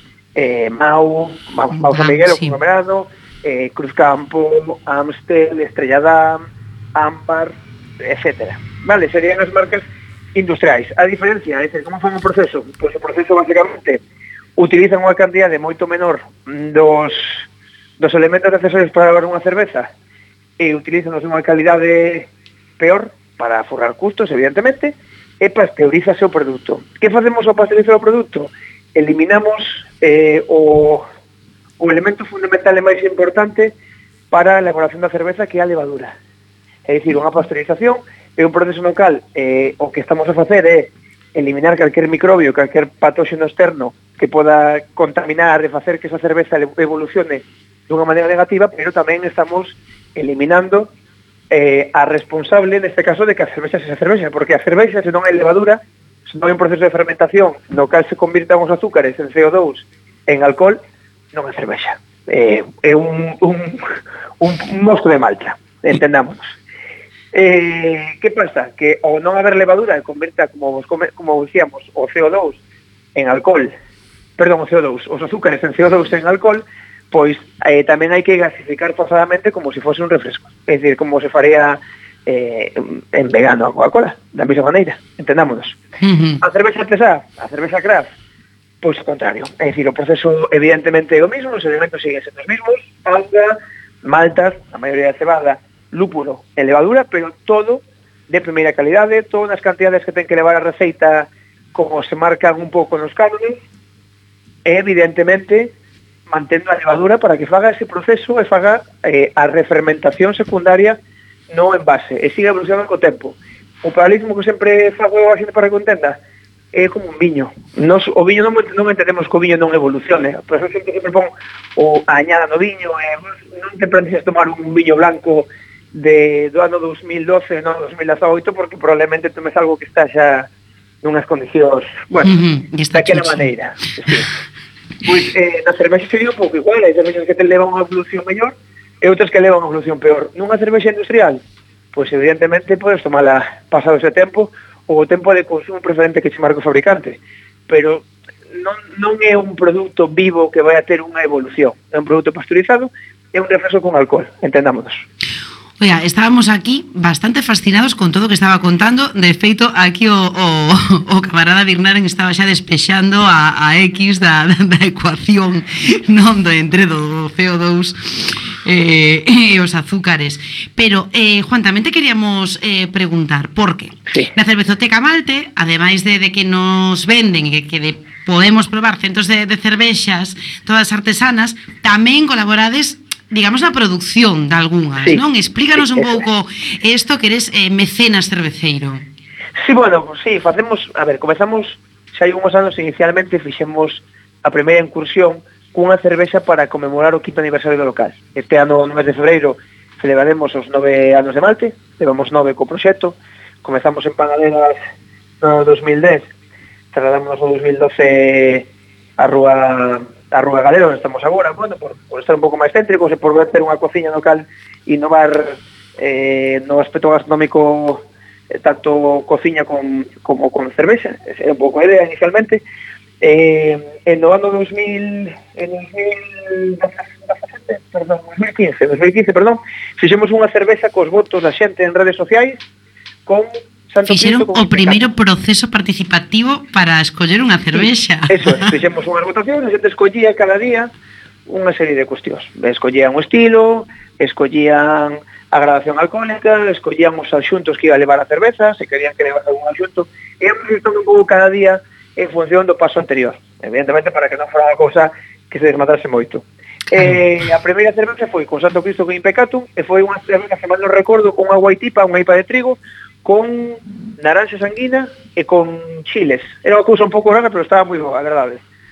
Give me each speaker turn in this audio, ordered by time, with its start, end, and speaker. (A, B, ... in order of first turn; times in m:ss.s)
0:00.4-0:14.0 A
0:01.8-0:02.6 B
0:14.6-0:17.4 A
0:18.0-0:19.9 A
0:20.6-0:31.0 A
0:31.8-0:33.7 A
0:34.3-0:36.2 A
0:36.9-0:50.9 A
0:51.5-1:00.8 A
1:01.3-1:03.8 A
1:04.4-1:06.5 A
1:07.3-1:12.6 A
1:13.2-1:13.7 A
1:14.4-1:25.8 A
1:26.0-1:26.4 B
1:26.4-1:28.1 A
1:28.8-1:43.6 A
1:44.7-1:45.7 A
1:46.3-1:51.0 A
1:51.5-1:56.2 A
1:56.7-2:10.5 A
2:11.0-2:12.3 A
2:12.2-2:13.5 B
2:12.9-2:14.3 A
2:15.0-2:21.4 A
2:21.9-2:35.0 A
2:35.8-3:09.0 B
3:05.8-3:06.2 A
3:09.6-3:24.8 A
3:25.4-3:26.3 A
3:26.9-3:28.7 A
3:29.2-3:42.6 A
3:43.2-3:52.6 A
3:53.3-3:55.0 A
3:54.1-3:58.7 B
3:57.8-4:00.9 A
4:01.5-4:28.6 A